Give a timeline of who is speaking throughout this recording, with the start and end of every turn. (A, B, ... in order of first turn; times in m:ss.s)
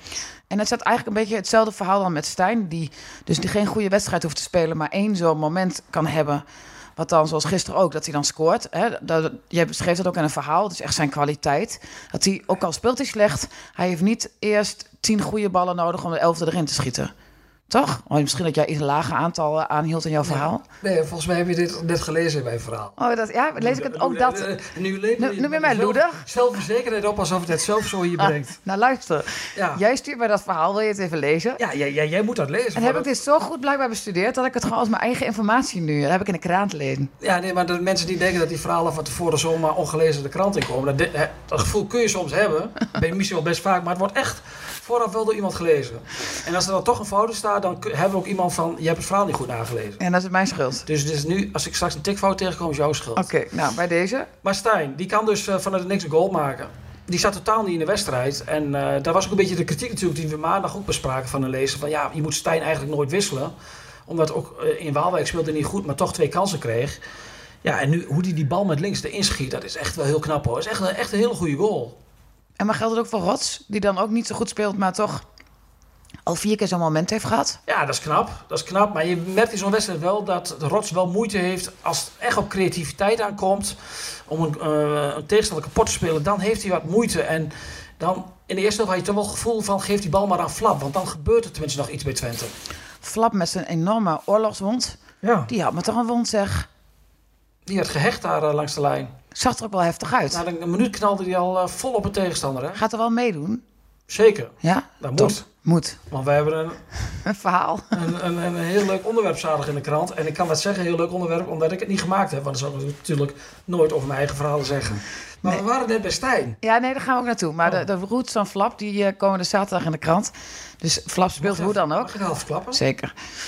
0:00.5-0:06.4 A
0:07.0-0:17.1 A
0:17.7-0:20.6 A
0:20.2-0:23.0 B
0:23.0-0:24.5 A
0:23.6-0:28.6 B
0:25.2-0:26.2 A
0:28.2-0:31.6 A
0:29.5-0:29.8 B
0:31.6-0:33.1 B
0:32.7-0:37.1 A
0:37.2-0:50.0 B
0:50.0-0:50.9 A
0:50.8-0:53.3 B
0:53.2-0:54.3 A
0:54.4-1:03.5 B
1:04.1-1:07.0 B
1:07.6-1:12.0 B
1:12.6-1:15.2 A
1:16.2-1:17.6 A
1:17.7-1:32.5 B
1:33.0-1:35.0 A
1:35.2-1:35.5 B
1:35.5-1:36.7 A
1:37.6-1:39.1 B
1:39.3-1:40.4 A
1:40.3-1:42.8 B
1:42.7-1:43.6 A
1:44.1-1:45.4 B
1:44.6-1:46.0 A
1:46.1-1:46.8 B
1:47.1-1:48.0 A
1:47.9-1:56.6 B
1:56.6-2:02.1 A
2:01.4-2:02.8 B
2:02.7-2:03.1 A